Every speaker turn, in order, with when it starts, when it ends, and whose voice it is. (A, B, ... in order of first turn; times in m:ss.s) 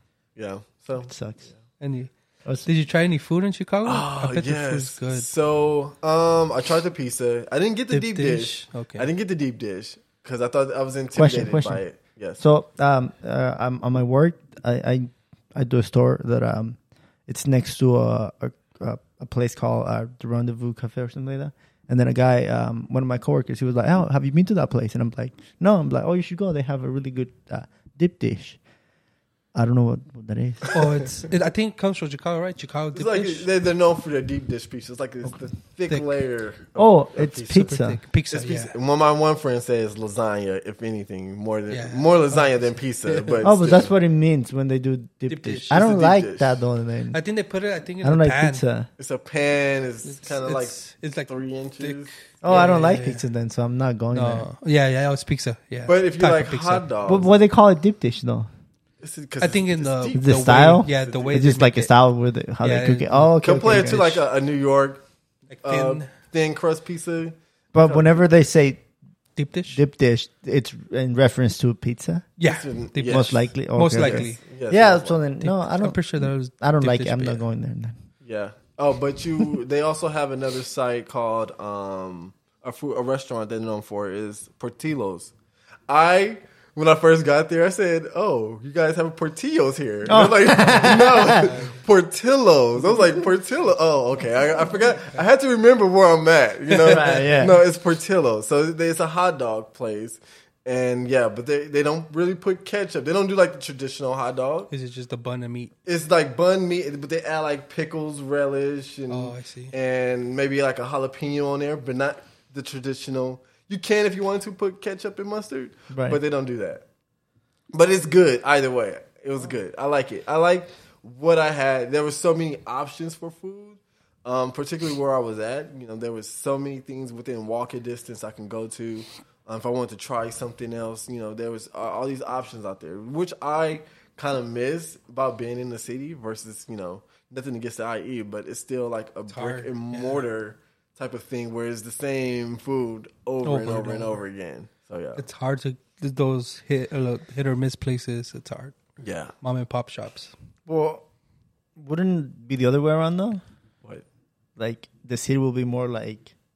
0:00.4-0:01.1 A
0:01.0-0:01.4 B
0:01.8-0:02.1 C
0:02.6-0:05.3 C
0:03.8-0:12.4 A
0:07.9-0:09.1 C
0:11.1-0:11.8 B
0:12.4-0:28.6 B
0:29.5-0:30.7 B
0:30.7-0:31.0 A
0:30.7-0:33.5 C
0:32.9-0:37.8 A
0:36.8-0:38.0 B
0:37.8-0:38.7 C
0:38.3-0:43.9 A
0:41.7-0:43.4 C
0:43.4-0:47.2 B
0:45.3-0:45.9 C
0:45.7-0:46.6 A
0:47.1-0:48.6 C
0:48.0-0:48.9 B
0:49.0-0:50.8 A
0:50.0-0:53.2 C
0:51.3-0:52.1 A
0:52.4-0:54.4 B
0:54.1-0:56.8 C
0:55.9-0:57.3 A
0:57.0-0:58.5 B
0:59.0-1:01.4 A
0:59.4-1:01.9 C
1:00.1-1:04.2 B
1:02.6-1:03.3 C
1:03.4-1:05.0 A
1:05.5-1:06.1 C
1:05.6-1:08.2 A
1:07.7-1:08.8 B
1:09.4-1:09.8 C
1:09.7-1:12.3 B
1:12.4-1:14.4 C
1:12.4-1:13.3 A
1:13.1-1:18.0 B
1:14.0-1:15.2 A
1:15.4-1:17.4 C
1:18.2-1:25.3 A
1:25.9-1:44.7 A
1:30.1-1:31.5 B
1:31.4-1:31.7 C
1:36.8-1:37.6 B
1:44.7-1:45.7 C
1:45.8-1:56.8 A
1:49.1-1:49.7 C
1:55.9-1:56.2 B
1:57.7-2:25.2 A
2:19.3-2:20.2 C
2:23.4-2:24.2 C
2:25.2-2:28.7 C
2:29.0-2:29.3 A
2:29.4-2:30.3 C
2:30.7-2:31.0 B
2:31.8-2:33.4 B
2:34.6-2:36.3 B